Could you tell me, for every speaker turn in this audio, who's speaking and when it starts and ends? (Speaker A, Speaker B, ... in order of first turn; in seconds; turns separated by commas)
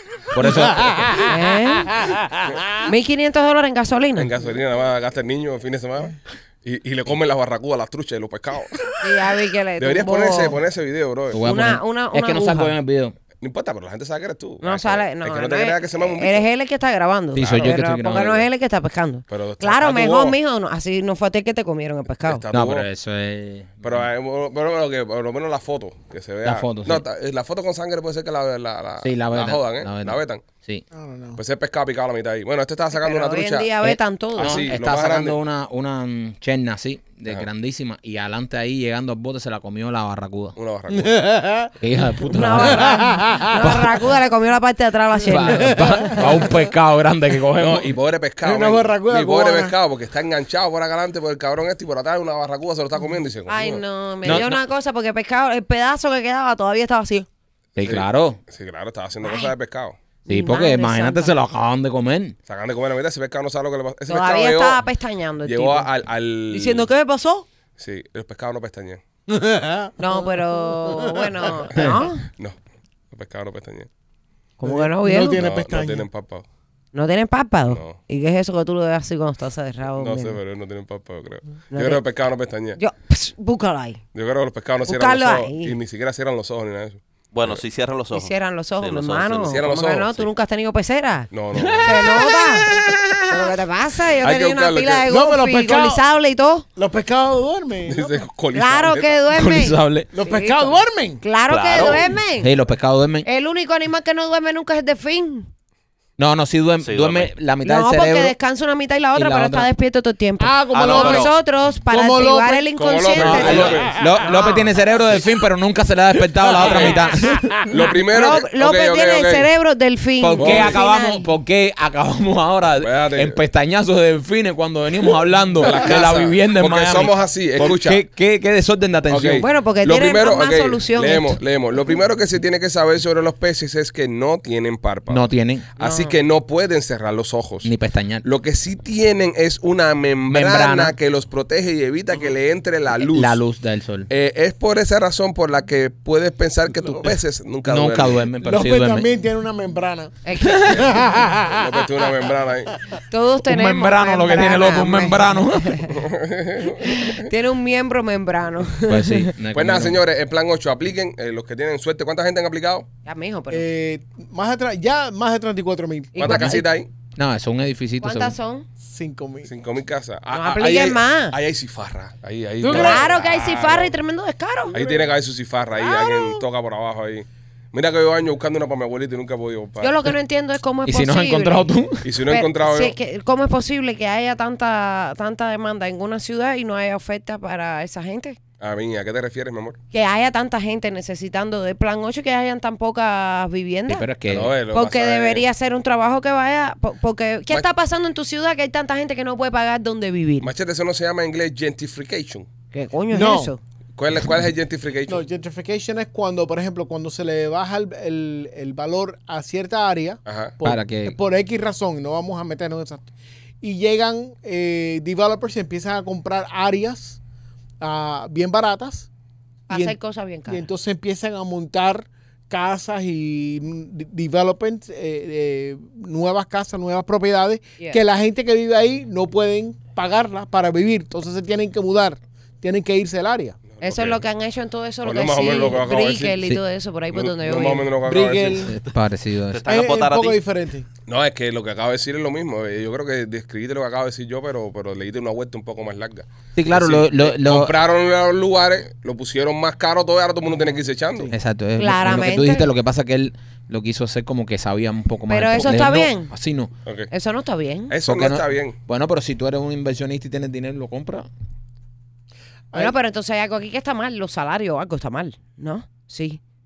Speaker A: 0.3-1.2, Speaker B: 0.7-1.3, Speaker C: 1.2-2.0, Speaker B: 2.0-2.4, Speaker C: 2.8-4.3, Speaker D: 4.2-9.1, Speaker C: 9.0-10.6, Speaker D: 9.8-11.4, Speaker A: 11.3-13.1, Speaker C: 11.4-12.7, Speaker D: 13.4-16.5, Speaker C: 14.6-22.4, Speaker A: 17.3-18.4, Speaker D: 17.4-17.8, Speaker D: 19.3-20.4, Speaker D: 22.2-22.9, Speaker A: 22.5-24.1, Speaker D: 23.8-30.4, Speaker A: 26.4-27.0, Speaker A: 29.0-30.8, Speaker B: 30.9-31.4, Speaker D: 31.4-33.7, Speaker C: 32.9-34.7, Speaker A: 33.8-40.5, Speaker D: 34.3-35.4, Speaker D: 40.5-41.3, Speaker B: 40.9-41.7, Speaker A: 41.8-44.0, Speaker C: 42.2-46.4, Speaker B: 42.6-43.7, Speaker A: 45.2-47.9, Speaker B: 45.4-46.5, Speaker D: 47.5-54.5, Speaker B: 48.4-49.7, Speaker C: 53.5-57.3, Speaker A: 54.2-54.6, Speaker A: 57.8-58.4, Speaker D: 57.8-60.0, Speaker C: 59.2-59.5, Speaker C: 60.2-61.3, Speaker A: 60.3-62.4, Speaker D: 62.5-64.8, Speaker C: 64.1-65.9, Speaker D: 65.4-66.9, Speaker C: 66.5-67.5, Speaker D: 67.8-69.0, Speaker B: 69.3-71.7, Speaker C: 70.0-72.2, Speaker D: 71.8-72.6, Speaker D: 73.1-73.9, Speaker C: 74.6-75.4, Speaker B: 74.6-76.0, Speaker D: 75.3-76.5, Speaker C: 76.9-80.4, Speaker D: 77.7-78.0, Speaker D: 80.0-82.8, Speaker C: 81.7-82.0, Speaker C: 82.8-84.0, Speaker D: 84.1-87.6, Speaker C: 84.8-85.8, Speaker E: 87.3-89.6, Speaker C: 88.1-91.3, Speaker D: 89.4-90.3, Speaker D: 91.3-92.2, Speaker A: 91.5-93.5, Speaker C: 91.8-92.7, Speaker C: 93.3-96.7, Speaker D: 94.2-95.1, Speaker B: 95.1-96.0, Speaker B: 96.8-98.2, Speaker D: 97.9-99.3, Speaker C: 98.5-102.5, Speaker A: 99.3-100.1, Speaker B: 100.1-101.2, Speaker E: 101.5-102.1, Speaker A: 102.4-103.3, Speaker C: 103.2-105.5, Speaker A: 106.2-108.3, Speaker E: 106.8-107.3, Speaker C: 107.6-114.7, Speaker A: 109.1-109.7, Speaker B: 110.4-111.3, Speaker E: 110.7-111.3, Speaker B: 111.9-114.5, Speaker D: 112.8-113.9, Speaker A: 113.2-117.5, Speaker B: 116.5-117.5, Speaker D: 116.6-117.0, Speaker D: 117.7-119.5, Speaker C: 117.8-121.3, Speaker A: 120.2-129.4, Speaker D: 120.4-120.8, Speaker D: 122.8-123.4, Speaker D: 125.6-128.0, Speaker D: 129.1-137.7, Speaker C: 129.4-131.4, Speaker A: 135.1-135.7, Speaker C: 135.8-136.2, Speaker A: 137.6-138.2, Speaker D: 138.2-143.4, Speaker A: 140.3-140.9, Speaker A: 142.9-144.1, Speaker D: 144.1-148.2, Speaker A: 147.7-149.1, Speaker B: 148.4-152.1, Speaker C: 150.2-150.7, Speaker A: 150.4-150.8, Speaker D: 151.5-152.8, Speaker C: 153.1-156.0, Speaker A: 153.4-155.9, Speaker D: 155.9-157.3, Speaker C: 156.8-159.3, Speaker A: 158.8-160.0, Speaker D: 159.5-162.9, Speaker C: 163.0-163.7, Speaker B: 163.5-166.2, Speaker C: 166.2-166.6, Speaker D: 166.2-166.9, Speaker A: 166.2-166.6, Speaker A: 167.2-168.3, Speaker C: 168.0-168.7, Speaker B: 168.8-169.5, Speaker D: 169.4-173.9, Speaker C: 170.3-171.4, Speaker B: 172.6-173.1, Speaker C: 172.6-174.8, Speaker D: 174.7-180.1, Speaker B: 174.7-175.1, Speaker B: 175.8-176.4, Speaker C: 179.8-181.7, Speaker A: 180.8-182.0, Speaker D: 182.0-182.9, Speaker C: 182.2-188.4, Speaker D: 188.6-189.8, Speaker C: 189.9-194.1, Speaker A: 193.9-194.5, Speaker D: 194.3-195.5, Speaker C: 194.7-200.5, Speaker D: 200.4-202.5, Speaker C: 202.7-203.6, Speaker B: 203.1-203.5, Speaker D: 204.0-205.2, Speaker B: 205.1-213.1, Speaker D: 210.2-210.5, Speaker A: 210.6-211.2, Speaker B: 213.6-217.2, Speaker B: 217.8-219.1, Speaker C: 219.7-220.7, Speaker B: 219.7-219.9, Speaker B: 220.5-233.6, Speaker D: 233.7-234.2, Speaker C: 233.8-237.9, Speaker D: 235.0-236.4, Speaker D: 237.1-238.7, Speaker B: 238.0-238.8, Speaker A: 238.6-239.7, Speaker E: 239.5-240.4, Speaker B: 239.7-240.8, Speaker D: 241.1-251.3, Speaker A: 246.6-247.7, Speaker A: 251.3-256.7, Speaker C: 251.8-252.7, Speaker C: 255.3-256.3, Speaker C: 257.1-257.9, Speaker D: 257.9-258.8, Speaker A: 258.0-261.3, Speaker C: 262.7-266.4